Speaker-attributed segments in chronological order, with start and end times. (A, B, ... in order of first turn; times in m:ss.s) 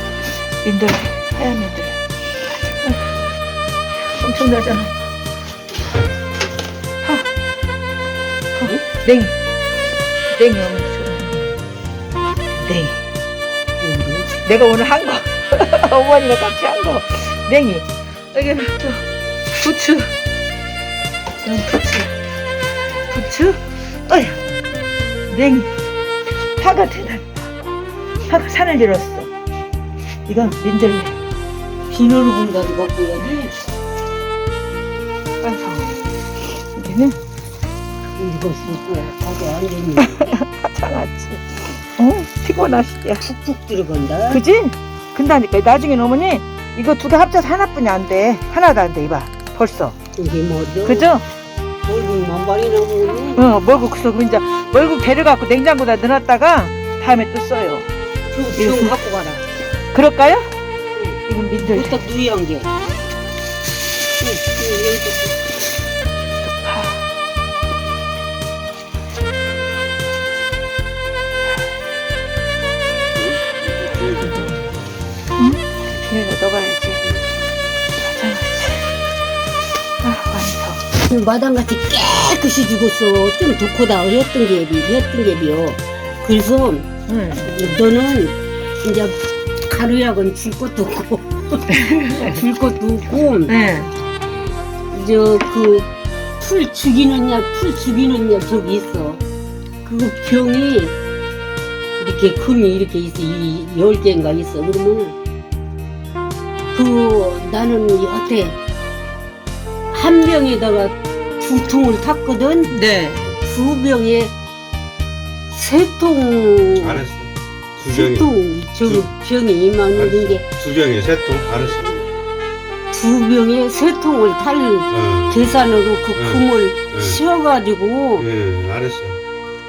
0:00.6-0:03.1 A
0:04.0-0:05.0 A
0:07.0-0:07.3 A
0:08.6-0:09.4 A
0:10.3-0:11.4 A
0:12.6-0:13.0 A
0:13.8-0:14.3 B
0:14.4-0:20.1 A
0:21.4-0:22.1 A
0:23.1-0:24.4 A
0:25.3-0:25.7 A
0:26.6-0:27.5 A
0:28.2-0:29.3 A
0:30.3-0:31.2 A
0:31.9-0:33.6 B
0:35.4-0:36.0 A
0:36.6-0:37.2 A
0:38.2-0:40.4 B
0:40.1-0:43.3 A
0:43.3-0:44.4 B
0:44.3-0:50.0 A
0:50.2-0:51.1 B
0:50.8-0:51.2 A
0:51.8-0:53.5 B
0:53.4-0:57.9 A
0:58.3-0:59.4 B
0:58.6-0:59.0 A
0:59.9-1:00.5 A
1:01.3-1:02.0 A
1:01.7-1:02.7 B
1:04.2-1:05.4 B
1:06.4-1:07.1 A
1:13.2-1:14.3 C
1:14.2-1:14.6 A
1:15.4-1:17.1 A
1:18.0-1:18.9 A
1:20.0-1:20.8 A
1:20.9-1:26.9 B
1:27.1-1:27.5 A
1:27.4-1:29.2 B
1:29.7-1:33.6 B
1:31.7-1:32.4 A
1:33.5-1:33.9 A
1:34.9-1:39.2 B
1:39.8-1:41.0 B
1:42.0-1:45.2 B
1:46.7-1:48.6 B
1:49.9-1:52.8 B
1:52.7-1:53.2 A
1:53.1-1:53.4 C
1:53.4-1:54.3 B
1:55.5-1:57.1 B
1:56.8-1:58.3 C
1:57.8-2:00.5 B
1:58.8-1:59.1 C
1:59.9-2:02.0 C
2:02.9-2:08.3 B
2:05.0-2:05.4 C
2:06.2-2:07.2 C
2:08.2-2:09.2 C